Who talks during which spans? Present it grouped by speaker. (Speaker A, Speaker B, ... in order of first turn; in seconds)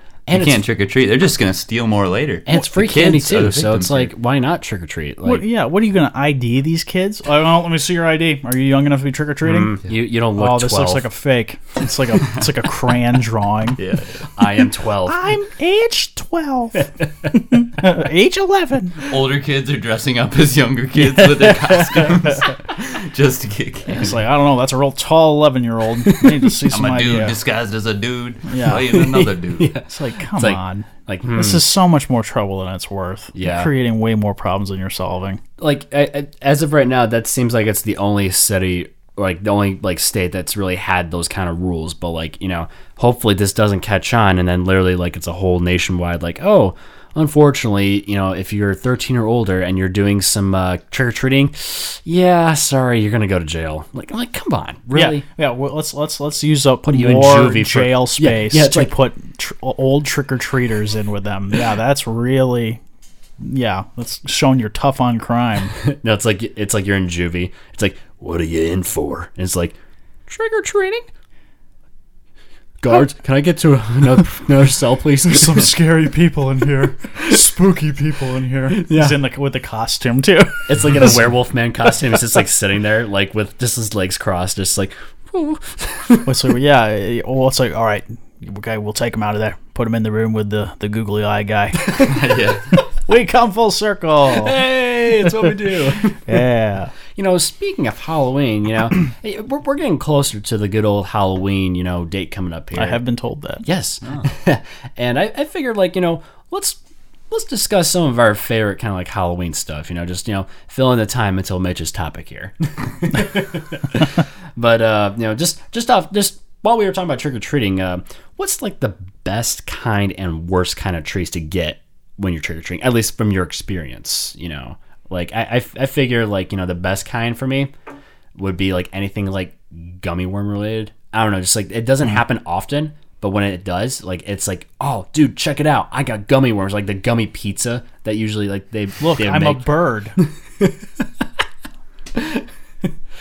Speaker A: 0.3-0.6, 2.5-5.4, 9.4-11.1, 14.3-15.3, 17.0-17.3, 26.1-26.5, 28.7-31.6, 33.4-33.7, 35.6-55.2, 56.9-58.9, 65.8-71.1, 72.8-75.7, 78.7-79.2, 80.7-86.3, 91.8-92.1, 94.3-96.2, 97.1-103.0, 103.6-106.8, 107.3-127.7, 128.3-139.7, 140.2-141.1, 142.1-142.4
Speaker B: 0.3-4.1, 13.8-14.3, 19.1-24.2, 26.7-29.7, 92.0-92.7
Speaker C: 5.2-9.8, 10.4-13.8, 15.1-19.2, 21.0-22.5, 23.9-27.4, 28.5-29.0, 29.9-35.4, 54.9-62.8, 63.4-65.7, 75.3-81.2, 86.3-92.0, 93.0-94.6, 95.2-96.9, 102.8-103.6, 139.0-140.2